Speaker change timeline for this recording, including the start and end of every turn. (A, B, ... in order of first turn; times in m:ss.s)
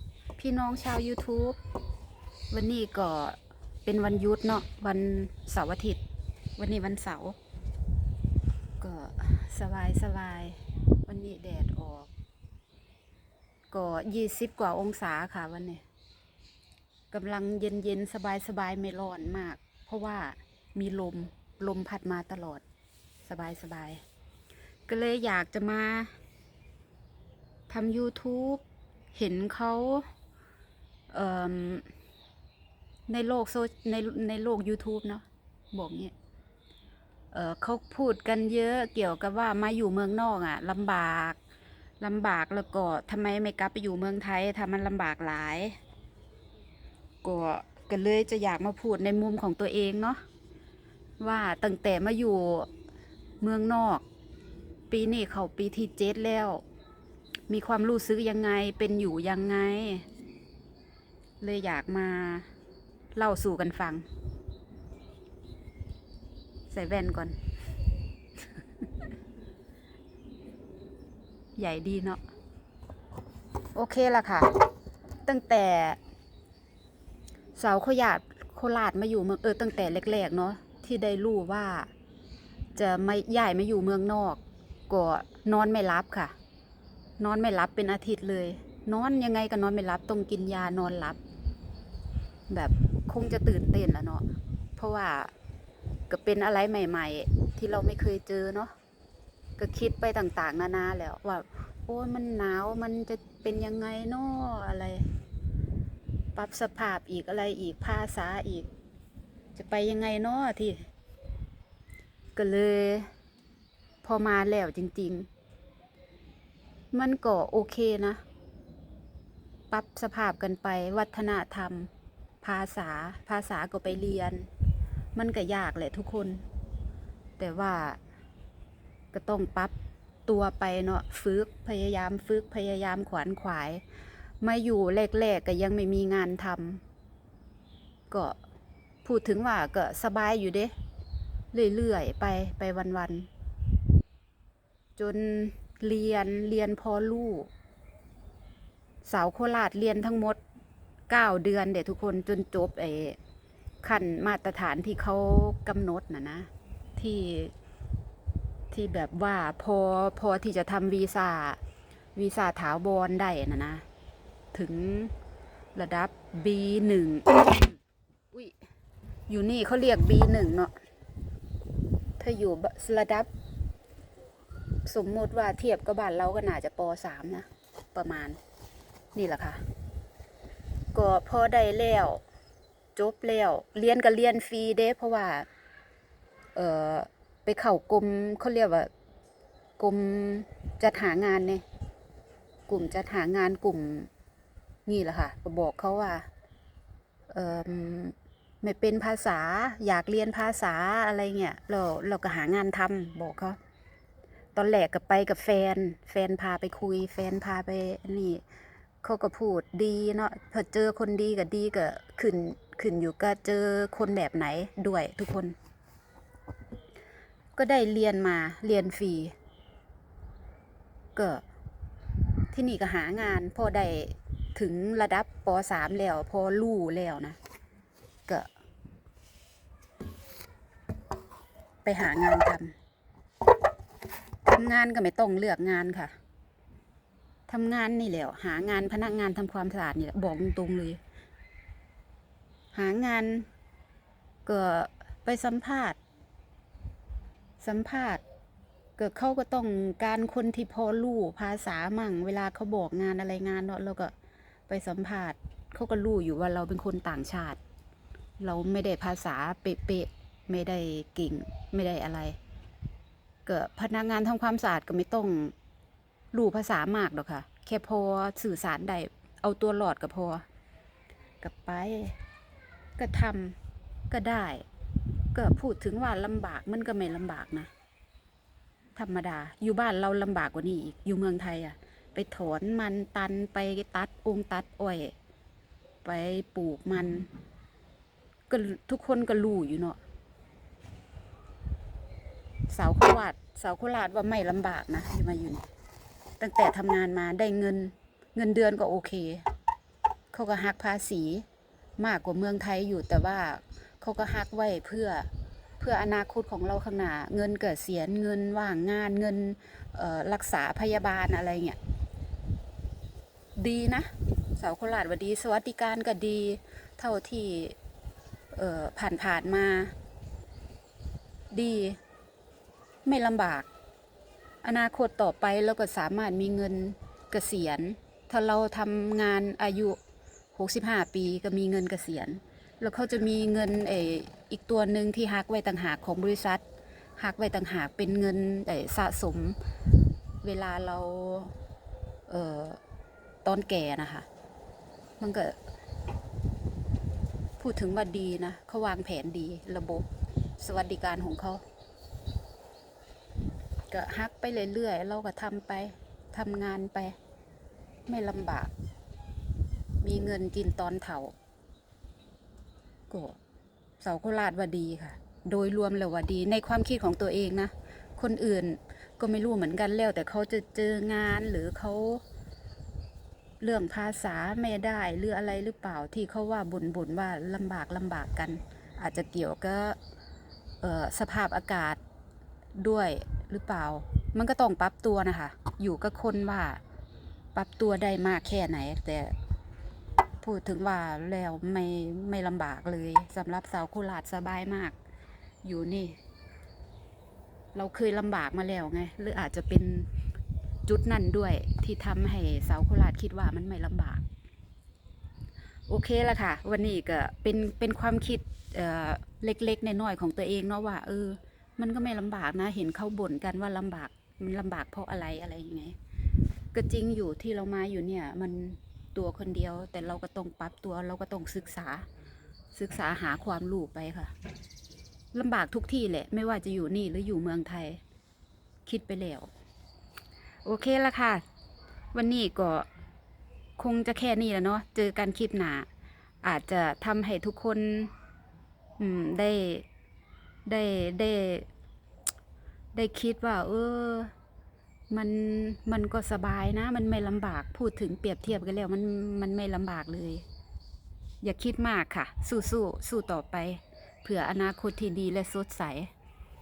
0:00.4-0:01.6 A
0:02.5-0:06.0 A
0:06.6-0:07.4 A
0:08.8-0:12.1 A
0:13.7-0:15.8 A
0:17.1-0:22.6 A
0:23.2-0:24.0 A
0:24.9-0:26.1 A
0:27.7-0:30.0 A
0:31.1-0:31.9 A
0:33.1-0:36.1 A
0:37.3-0:41.4 A
0:42.0-0:45.8 A
0:47.2-0:50.2 A
0:51.2-0:52.7 A
0:53.4-0:54.0 A
0:54.9-0:56.6 A
0:57.5-1:00.0 A
1:01.4-1:02.5 A
1:03.1-1:04.0 A
1:06.7-1:07.4 A
1:08.6-1:08.9 A
1:11.6-1:12.2 A
1:13.7-1:14.5 A
1:15.2-1:16.0 A
1:17.6-1:21.9 A
1:22.7-1:26.3 A
1:27.2-1:31.2 A
1:32.5-1:34.2 A
1:34.8-1:35.3 A
1:36.1-1:38.7 A
1:39.6-1:45.1 A
1:46.3-1:48.7 A
1:49.5-1:50.9 A
1:52.3-1:53.1 A
1:54.0-1:55.3 A
1:56.9-1:58.2 A
1:59.7-2:01.9 A
2:02.4-2:04.5 A
2:05.1-2:06.4 A
2:07.4-2:08.0 A
2:09.1-2:09.7 A
2:10.3-2:13.8 A
2:14.4-2:16.8 A
2:18.1-2:18.4 A
2:19.0-2:20.7 A
2:21.5-2:23.3 A
2:25.0-2:27.5 A
2:29.0-2:30.4 A
2:31.1-2:33.2 A
2:33.8-2:37.5 A
2:38.7-2:41.6 A
2:42.2-2:43.8 A
2:44.5-2:45.1 A
2:45.7-2:47.8 A
2:49.3-2:50.7 A
2:52.2-2:53.3 A
2:54.8-2:58.4 A
2:59.1-2:59.6 A
3:00.9-3:02.2 A
3:02.9-3:05.4 A
3:06.5-3:08.9 A
3:09.8-3:11.6 A
3:12.7-3:14.1 A
3:14.8-3:16.3 A
3:17.3-3:23.6 A
3:24.5-3:28.4 A
3:29.0-3:35.5 A
3:37.6-3:39.3 A
3:41.2-3:41.4 A
3:42.5-3:47.4 A
3:51.8-3:52.7 A
3:54.4-3:56.1 A
3:57.5-4:01.0 A
4:02.7-4:03.5 A
4:04.4-4:06.0 A
4:07.6-4:08.2 A
4:09.0-4:14.1 A
4:14.7-4:17.6 A
4:18.4-4:22.4 A
4:23.4-4:25.5 A
4:26.3-4:30.4 A
4:31.4-4:32.2 A
4:33.0-4:33.6 A
4:34.1-4:34.6 A
4:35.3-4:37.7 A
4:38.9-4:45.1 A
4:46.0-4:47.3 A
4:48.5-4:50.0 A
4:52.7-4:55.7 A
4:56.4-4:59.4 A
5:00.3-5:01.4 A
5:02.0-5:05.3 A
5:05.8-5:11.8 A
5:13.6-5:17.8 A
5:18.5-5:19.9 A
5:21.5-5:22.0 A
5:23.0-5:23.7 A
5:24.6-5:30.0 A
5:30.5-5:36.6 A
5:37.2-5:39.6 A
5:40.4-5:41.5 A
5:42.3-5:42.8 A
5:43.4-5:44.2 A
5:45.2-5:45.6 A
5:47.6-5:50.1 A
5:50.6-5:51.6 A
5:53.9-5:57.2 A
5:58.1-5:58.7 A
6:00.0-6:01.3 A
6:03.1-6:03.4 A
6:04.0-6:12.2 A
6:13.6-6:20.0 A
6:20.8-6:22.0 A
6:22.8-6:26.8 A
6:27.5-6:29.3 A
6:30.4-6:34.9 A
6:35.6-6:36.2 A
6:37.7-6:40.1 A
6:40.9-6:44.2 A
6:45.9-6:55.9 A
6:56.7-7:02.0 A
7:02.7-7:04.3 A
7:05.3-7:08.0 A
7:08.8-7:09.5 A
7:10.6-7:11.4 A
7:12.1-7:12.9 A
7:13.8-7:15.9 A
7:16.4-7:18.1 A
7:19.0-7:19.8 A
7:20.6-7:21.7 A
7:22.9-7:24.3 A
7:25.1-7:30.4 A
7:31.4-7:36.1 A